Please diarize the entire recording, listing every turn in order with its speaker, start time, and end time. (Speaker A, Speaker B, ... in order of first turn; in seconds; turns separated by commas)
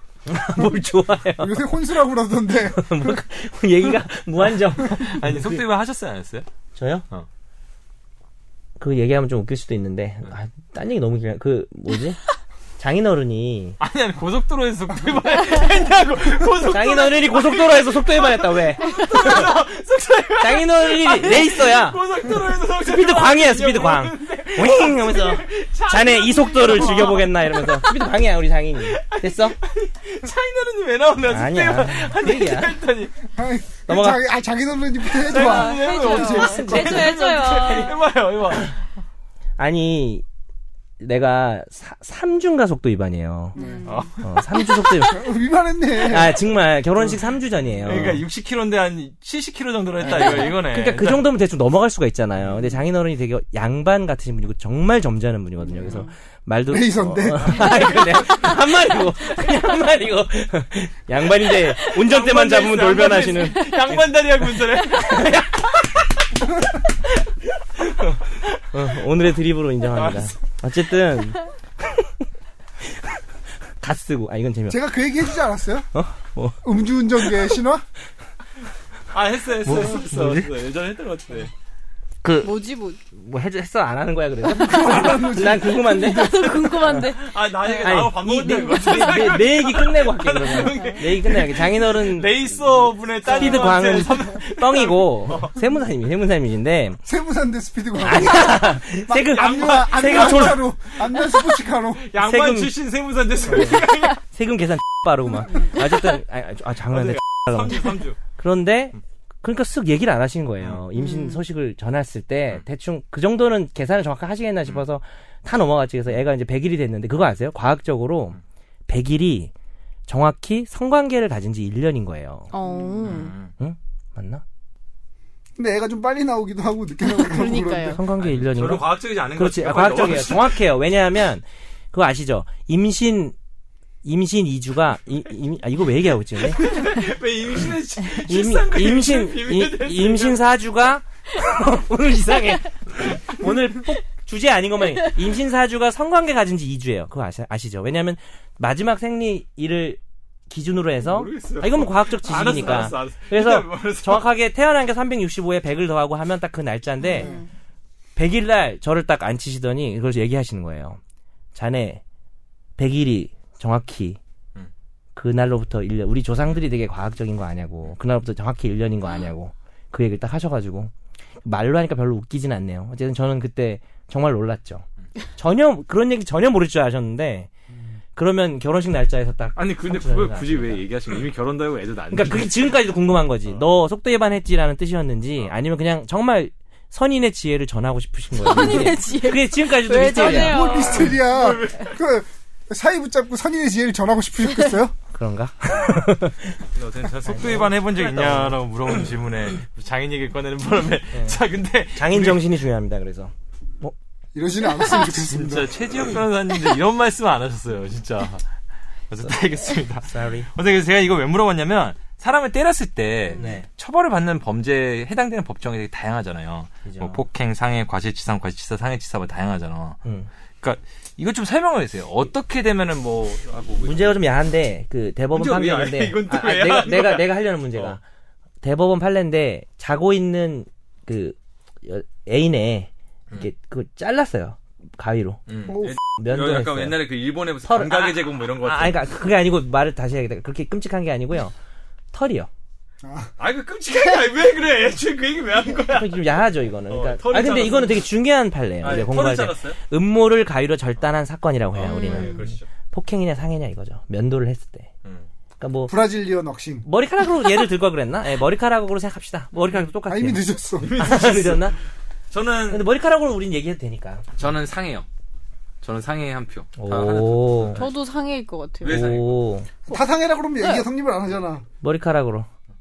Speaker A: 0.3-1.7, Speaker B: 1.4-3.2, Speaker A: 2.6-5.6, Speaker C: 4.8-6.5, Speaker A: 6.7-7.0, Speaker A: 8.8-12.2, Speaker A: 12.8-13.8, Speaker C: 13.8-28.0, Speaker A: 16.6-19.5, Speaker D: 18.9-19.3, Speaker A: 20.4-22.0, Speaker A: 22.8-29.6, Speaker C: 28.8-33.1, Speaker A: 31.3-32.8, Speaker B: 33.3-37.1, Speaker A: 33.9-34.2, Speaker C: 35.1-38.8, Speaker D: 35.3-38.0, Speaker A: 36.7-37.1, Speaker A: 39.6-40.2, Speaker A: 41.0-43.6, Speaker D: 43.5-44.5, Speaker B: 43.5-43.8, Speaker C: 43.8-44.2, Speaker A: 44.2-45.3, Speaker B: 45.0-46.4, Speaker A: 46.0-48.2, Speaker C: 47.8-51.2, Speaker A: 50.0-65.7, Speaker B: 55.7-56.0, Speaker B: 56.7-57.8, Speaker C: 57.2-58.5, Speaker C: 61.8-65.4, Speaker A: 68.7-72.1, Speaker C: 69.9-70.3, Speaker A: 72.8-73.2, Speaker A: 73.8-74.8, Speaker B: 74.7-75.9, Speaker A: 75.9-76.6, Speaker B: 76.6-77.8, Speaker C: 79.1-81.5, Speaker A: 79.6-80.5, Speaker A: 82.2-82.5, Speaker D: 82.4-83.0, Speaker A: 83.1-87.1, Speaker B: 84.5-86.2, Speaker D: 84.7-85.0, Speaker D: 85.8-89.3, Speaker C: 87.2-95.5, Speaker A: 87.7-92.5, Speaker D: 90.7-91.0, Speaker A: 93.3-97.0, Speaker D: 93.3-93.6, Speaker B: 97.0-102.0, Speaker A: 98.0-100.7, Speaker C: 99.2-104.2, Speaker A: 102.2-102.8, Speaker A: 103.4-119.5, Speaker C: 106.9-108.2, Speaker D: 110.9-111.4, Speaker A: 120.1-122.5, Speaker D: 122.5-123.3, Speaker B: 122.6-123.0, Speaker C: 123.0-123.5, Speaker A: 123.6-124.4, Speaker B: 125.6-128.0, Speaker D: 127.0-128.0, Speaker A: 127.8-133.3, Speaker C: 128.2-130.6, Speaker A: 134.0-136.7, Speaker C: 136.5-140.4, Speaker A: 138.2-157.3, Speaker C: 151.0-154.3, Speaker D: 157.0-157.5, Speaker A: 158.2-161.0, Speaker A: 161.5-162.0, Speaker A: 162.8-164.2, Speaker A: 165.2-170.9, Speaker A: 171.4-174.8, Speaker A: 175.4-177.5, Speaker A: 178.2-180.8, Speaker C: 179.6-182.8, Speaker A: 182.1-190.8, Speaker D: 188.4-191.1, Speaker B: 190.2-194.9, Speaker C: 190.7-191.9, Speaker A: 195.1-196.6, Speaker C: 196.7-202.4, Speaker A: 197.2-198.6, Speaker A: 201.1-201.4, Speaker A: 201.9-203.9, Speaker B: 204.3-205.7, Speaker C: 204.9-208.4, Speaker C: 209.1-220.0, Speaker A: 210.0-210.5, Speaker D: 213.3-213.6, Speaker A: 213.3-213.7, Speaker A: 216.8-217.2, Speaker A: 220.0-220.3, Speaker C: 220.6-224.2, Speaker A: 223.8-228.0, Speaker C: 225.3-228.0, Speaker A: 228.6-235.4, Speaker C: 235.5-239.1, Speaker B: 235.7-235.9, Speaker A: 236.1-237.1, Speaker A: 237.6-241.5, Speaker A: 242.1-242.5, Speaker B: 243.0-243.3, Speaker C: 243.4-246.4, Speaker A: 245.9-254.9, Speaker C: 246.9-248.0, Speaker C: 248.8-249.8, Speaker C: 251.7-252.6, Speaker D: 251.8-252.4, Speaker A: 255.6-255.9, Speaker B: 255.9-256.9, Speaker A: 256.8-261.8, Speaker B: 260.1-261.0, Speaker C: 260.8-261.7, Speaker C: 262.3-262.9, Speaker A: 262.7-264.2, Speaker C: 264.4-265.1, Speaker C: 265.8-267.9, Speaker A: 266.8-267.8, Speaker D: 267.7-269.1, Speaker C: 268.8-269.4, Speaker A: 268.8-269.7, Speaker B: 269.9-271.6, Speaker A: 271.8-272.5